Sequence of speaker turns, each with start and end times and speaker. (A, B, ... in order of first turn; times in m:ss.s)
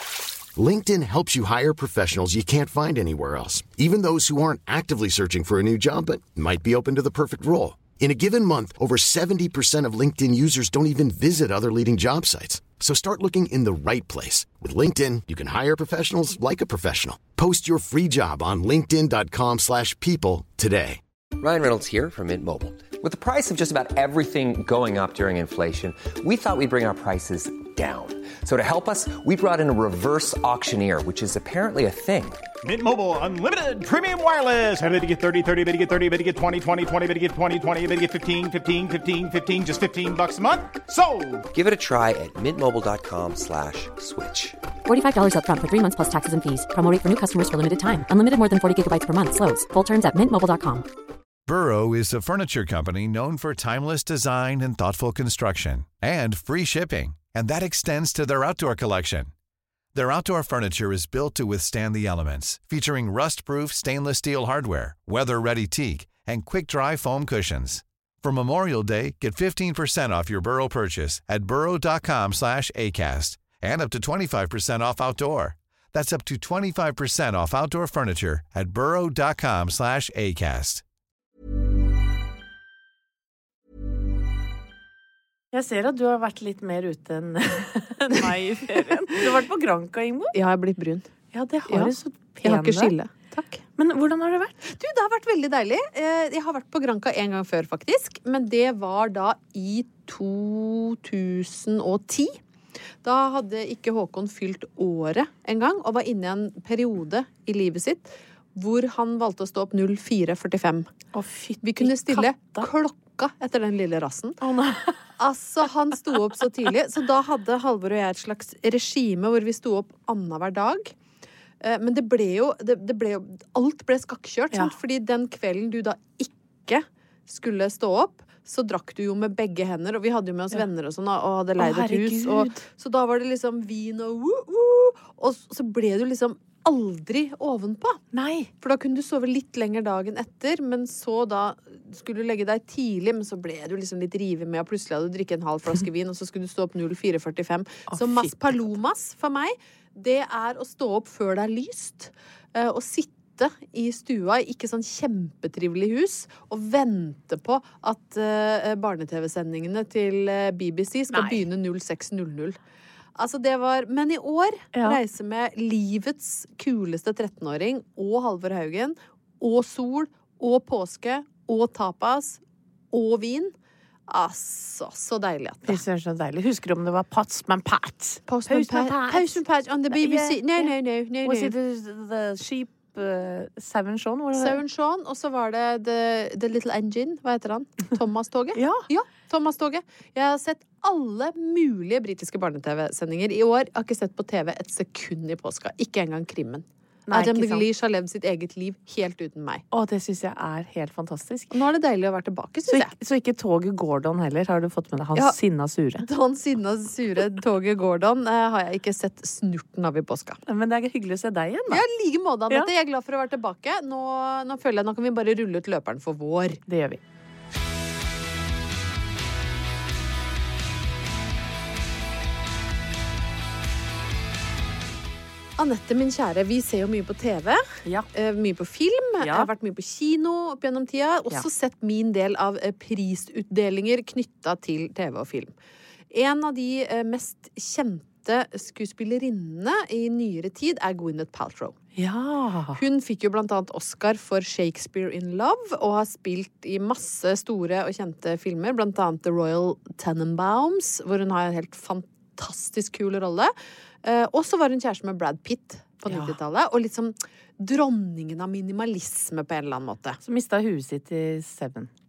0:00.6-0:21.0 A
0:21.4-0:32.4 B
0:32.6-0:41.5 C
0:41.5-0:44.6 B
0:44.8-0:50.8 D
0:51.5-0:59.3 E
0:59.9-1:20.8 E
1:25.5-1:30.4 F
1:30.3-1:31.1 G
1:31.3-1:33.0 F
1:31.7-1:33.6 G
1:33.8-1:34.6 F
1:34.7-1:42.4 G
1:43.0-1:50.9 G
1:51.1-1:52.7 F
1:51.6-1:54.4 G
1:54.4-1:55.0 F
1:55.2-2:00.9 G
2:01.6-2:18.0 G
2:11.6-2:12.6 F
2:18.1-2:18.5 F
2:18.6-2:42.6 G
2:27.9-2:28.5 F
2:41.1-2:41.4 F
2:43.2-2:52.4 G
2:44.7-2:45.0 F
2:52.9-2:53.5 G
2:54.1-2:55.8 G
2:55.6-3:00.7 F
2:58.3-3:01.5 G
3:01.2-3:04.6 F
3:04.4-3:19.6 G
3:08.5-3:08.8 F
3:17.1-3:17.7 F
3:19.7-3:21.6 F
3:21.5-3:22.9 G
3:22.7-3:26.1 F
3:26.0-3:30.4 G
3:30.4-3:31.8 F
3:31.7-3:36.6 G
3:36.7-3:37.0 F
3:45.6-3:55.5 G
3:49.2-3:49.5 F
3:56.1-4:01.8 G
4:02.0-4:02.8 F
4:02.7-4:13.5 G
4:14.0-4:20.2 G
4:16.1-4:16.4 F
4:20.2-4:21.9 F